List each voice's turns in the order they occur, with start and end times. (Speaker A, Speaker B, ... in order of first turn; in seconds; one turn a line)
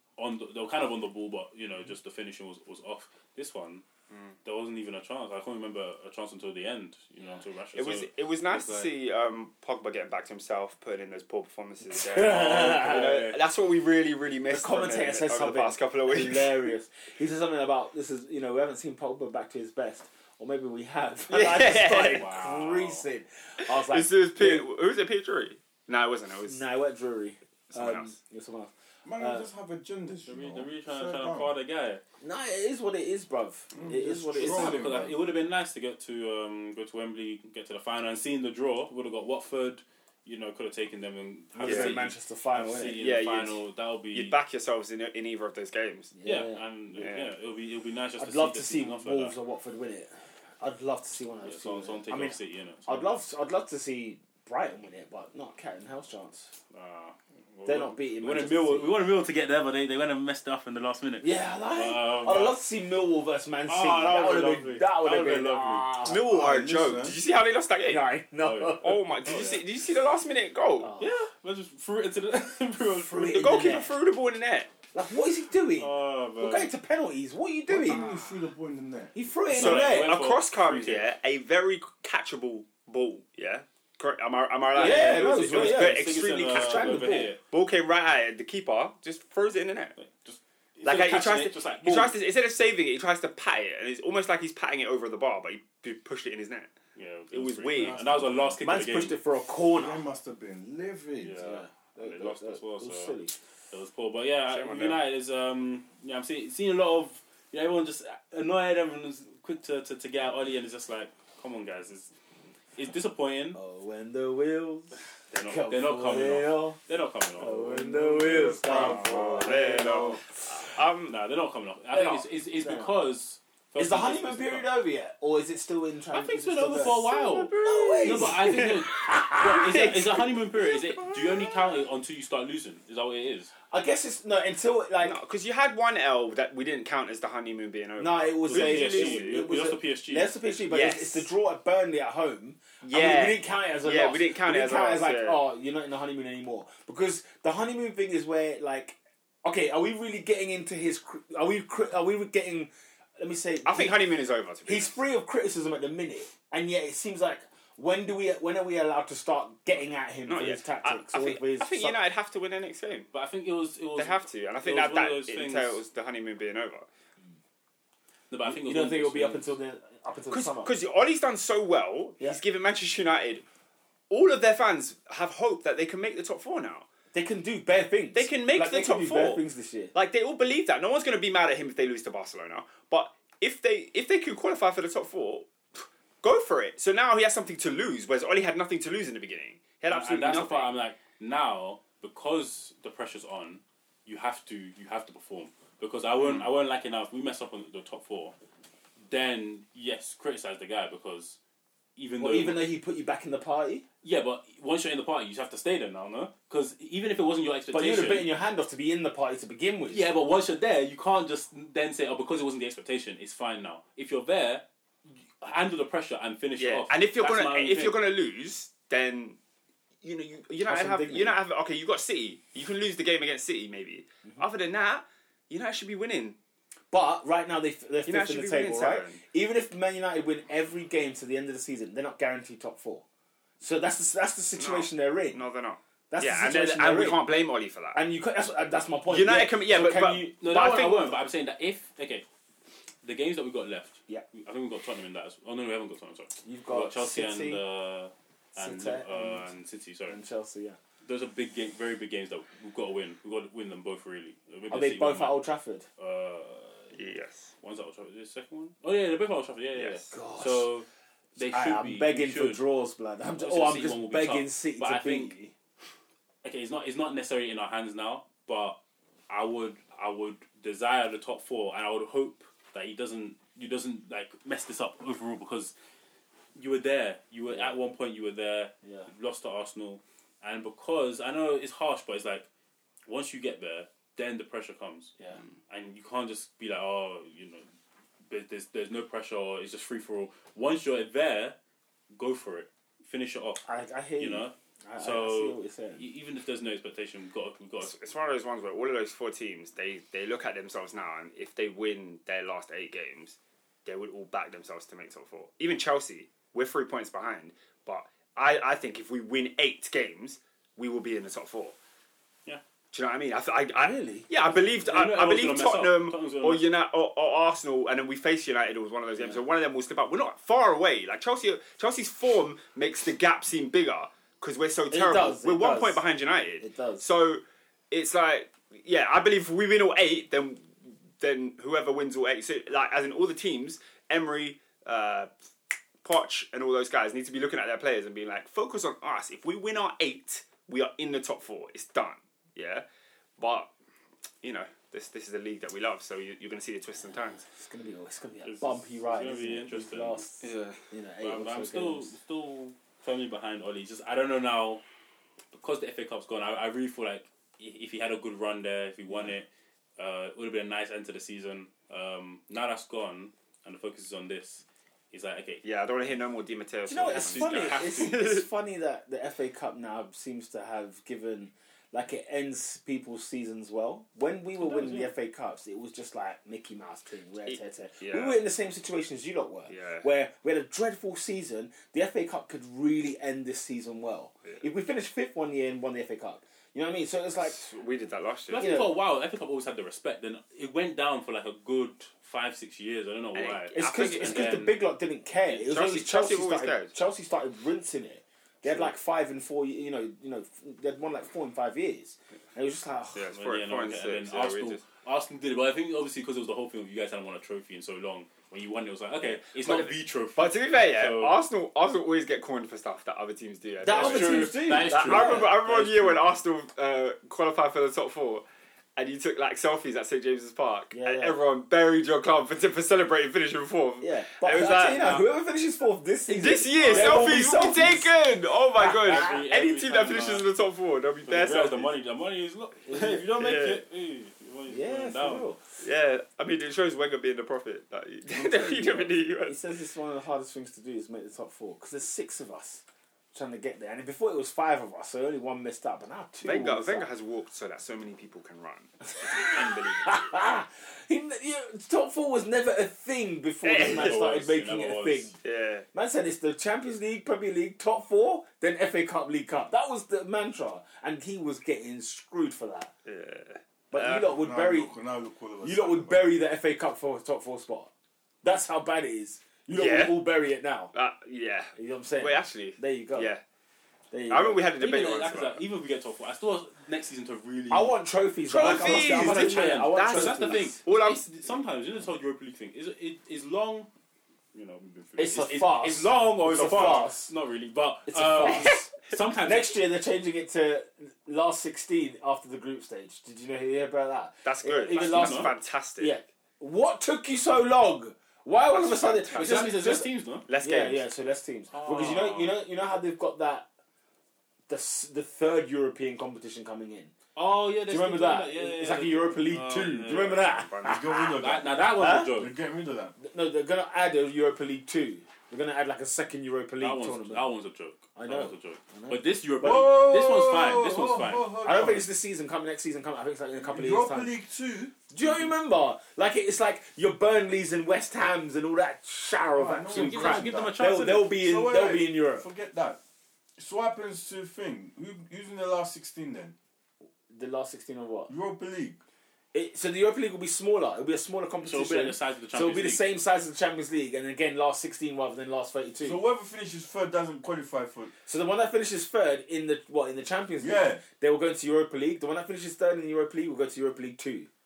Speaker A: 0.2-3.8
Speaker A: 4.5-8.9
Speaker B: 7.8-16.7
Speaker C: 11.9-13.3
Speaker A: 12.7-13.4
Speaker C: 14.5-24.7
Speaker B: 21.3-22.3
Speaker A: 21.9-23.0
Speaker B: 23.7-26.6
Speaker C: 26.5-29.5
Speaker B: 27.7-28.1
Speaker D: 29.1-31.5
Speaker A: 30.2-32.0
Speaker C: 32.2-35.1
Speaker D: 33.7-35.2
Speaker A: 34.3-44.4
Speaker C: 41.5-43.0
Speaker B: 41.6-42.0
Speaker B: 42.9-46.1
Speaker C: 46.1-46.6
Speaker A: 46.2-49.3
Speaker B: 47.0-47.3
Speaker C: 48.2-56.5
Speaker A: 51.4-53.1
Speaker A: 56.7-62.6
Speaker C: 57.6-59.0
Speaker C: 61.2-66.2
Speaker A: 63.7-65.9
Speaker B: 66.0-68.1
Speaker D: 66.1-67.2
Speaker C: 67.9-69.0
Speaker A: 68.4-69.6
Speaker B: 68.8-70.9
Speaker C: 70.8-71.1
Speaker A: 71.0-73.4
Speaker C: 72.9-73.9
Speaker B: 73.3-74.7
Speaker C: 74.9-78.2
Speaker A: 75.8-76.7
Speaker D: 77.7-79.2
Speaker C: 79.1-80.1
Speaker A: 79.5-81.1
Speaker B: 79.5-90.0
Speaker A: 84.7-87.4
Speaker C: 84.8-87.3
Speaker A: 90.0-92.1
Speaker B: 90.8-96.7
Speaker A: 97.0-99.2
Speaker B: 97.3-98.0
Speaker D: 97.8-98.6
Speaker C: 98.6-100.0
Speaker D: 99.7-101.6
Speaker A: 101.2-103.1
Speaker C: 101.4-103.3
Speaker A: 103.7-112.1
Speaker B: 104.5-105.0
Speaker A: 112.8-113.6
Speaker C: 113.5-116.8
Speaker A: 115.3-119.2
Speaker C: 117.4-120.2
Speaker D: 118.3-120.2
Speaker B: 118.7-121.2
Speaker A: 121.1-124.7
Speaker C: 121.9-123.0
Speaker C: 123.8-127.0
Speaker A: 126.1-133.5
Speaker B: 126.8-128.8
Speaker C: 127.6-130.2
Speaker B: 129.4-130.3
Speaker C: 133.7-135.2
Speaker B: 135.0-139.5
Speaker C: 138.0-154.0
Speaker A: 138.5-140.3
Speaker B: 140.7-141.3
Speaker B: 142.8-145.4
Speaker B: 153.7-155.0
Speaker C: 154.7-162.0
Speaker B: 160.3-163.1
Speaker A: 163.1-165.8
Speaker B: 164.0-166.9
Speaker A: 168.3-169.5
Speaker C: 168.4-170.7
Speaker B: 170.3-173.4
Speaker B: 174.1-176.9
Speaker C: 177.1-179.9
Speaker B: 178.1-179.4
Speaker B: 179.9-190.8
Speaker A: 189.9-198.3
Speaker A: 199.1-201.4
Speaker A: 202.0-202.6
Speaker C: 202.2-203.9
Speaker A: 204.0-208.3
Speaker C: 207.7-210.1
Speaker A: 209.9-214.7
Speaker A: 215.4-218.0
Speaker B: 216.6-219.4
Speaker B: 220.0-226.4
Speaker C: 220.6-221.4
Speaker C: 226.9-233.0
Speaker B: 228.1-229.2
Speaker C: 233.6-235.4
Speaker B: 234.6-238.0
Speaker C: 236.1-237.3
Speaker C: 237.9-241.2
Speaker B: 239.1-240.3
Speaker A: 240.4-242.2
Speaker A: 243.0-250.2
Speaker C: 246.4-247.6
Speaker C: 248.6-249.4
Speaker C: 250.1-250.8
Speaker A: 251.1-255.5
Speaker C: 254.7-255.9
Speaker A: 256.0-256.9
Speaker B: 256.9-257.5
Speaker A: 257.6-262.6
Speaker B: 259.8-260.1
Speaker C: 260.1-260.7
Speaker C: 261.4-265.5
Speaker A: 263.3-265.4
Speaker A: 266.4-268.8
Speaker A: 269.3-275.7
Speaker A: 276.6-282.5
Speaker A: 283.1-285.2
Speaker A: 285.7-287.6
Speaker A: 288.3-291.6
Speaker A: 292.1-293.7
Speaker C: 293.7-296.0
Speaker A: 294.2-297.9
Speaker B: 297.8-311.8
Speaker B: 312.9-335.3
Speaker C: 313.8-314.3
Speaker A: 314.8-316.7
Speaker C: 324.9-326.0
Speaker C: 326.6-327.1
Speaker B: 336.0-342.9
Speaker B: 343.4-343.7
Speaker B: 344.4-347.5
Speaker C: 347.5-352.1
Speaker A: 348.4-350.2
Speaker B: 350.4-350.8
Speaker A: 351.2-354.8
Speaker A: 355.5-365.6
Speaker C: 359.1-359.3
Speaker B: 365.6-368.4
Speaker C: 366.9-387.6
Speaker A: 367.0-368.2
Speaker A: 374.6-375.1
Speaker B: 377.5-378.4
Speaker B: 379.7-380.1
Speaker B: 387.4-388.7
Speaker A: 388.5-394.8
Speaker C: 388.6-388.9
Speaker B: 393.4-394.7
Speaker C: 393.7-403.2
Speaker B: 395.6-396.9
Speaker B: 403.1-404.8
Speaker A: 403.3-411.4
Speaker B: 409.3-418.4
Speaker C: 413.8-415.6
Speaker A: 413.9-416.3
Speaker B: 419.0-425.2
Speaker C: 420.9-421.4
Speaker C: 424.0-428.1
Speaker B: 426.3-431.9
Speaker A: 426.7-427.3
Speaker C: 428.8-429.4
Speaker A: 429.0-430.5
Speaker A: 431.3-435.5
Speaker C: 432.9-433.2
Speaker B: 433.4-433.8
Speaker C: 434.7-435.6
Speaker B: 435.8-439.6
Speaker C: 438.3-447.1
Speaker B: 446.4-450.2
Speaker C: 449.1-455.4
Speaker B: 453.6-454.2
Speaker A: 453.8-455.3
Speaker B: 455.4-455.9
Speaker C: 455.9-462.9
Speaker B: 463.1-464.3
Speaker C: 463.9-464.9
Speaker D: 464.3-466.3
Speaker C: 465.6-467.9
Speaker C: 468.4-470.9
Speaker B: 469.7-470.2
Speaker B: 470.9-473.4
Speaker C: 471.8-473.3
Speaker C: 474.1-474.6
Speaker B: 474.3-475.6
Speaker A: 474.8-477.9
Speaker C: 477.7-480.8
Speaker B: 478.5-481.2
Speaker A: 478.6-483.9
Speaker A: 484.5-489.8
Speaker C: 485.2-487.3
Speaker C: 488.1-500.1
Speaker B: 494.4-496.2
Speaker A: 494.9-495.5
Speaker B: 498.7-499.7
Speaker A: 499.0-500.5
Speaker B: 500.5-501.1
Speaker C: 500.6-503.7
Speaker A: 501.7-502.6
Speaker C: 504.7-507.1
Speaker A: 507.4-510.6
Speaker C: 507.9-511.4
Speaker B: 510.7-511.2
Speaker D: 510.8-513.2
Speaker A: 511.4-512.5
Speaker C: 512.0-512.3
Speaker C: 513.2-517.5
Speaker A: 516.8-521.5
Speaker C: 518.2-519.9
Speaker D: 519.6-522.1
Speaker C: 521.6-524.3
Speaker D: 523.6-525.0
Speaker C: 525.1-532.5
Speaker D: 529.5-533.0
Speaker A: 529.9-531.3
Speaker D: 533.6-536.5
Speaker C: 537.3-538.3
Speaker D: 538.3-539.0
Speaker C: 539.5-546.2
Speaker A: 541.6-543.0
Speaker D: 546.0-548.1
Speaker C: 548.3-554.5
Speaker D: 550.6-551.0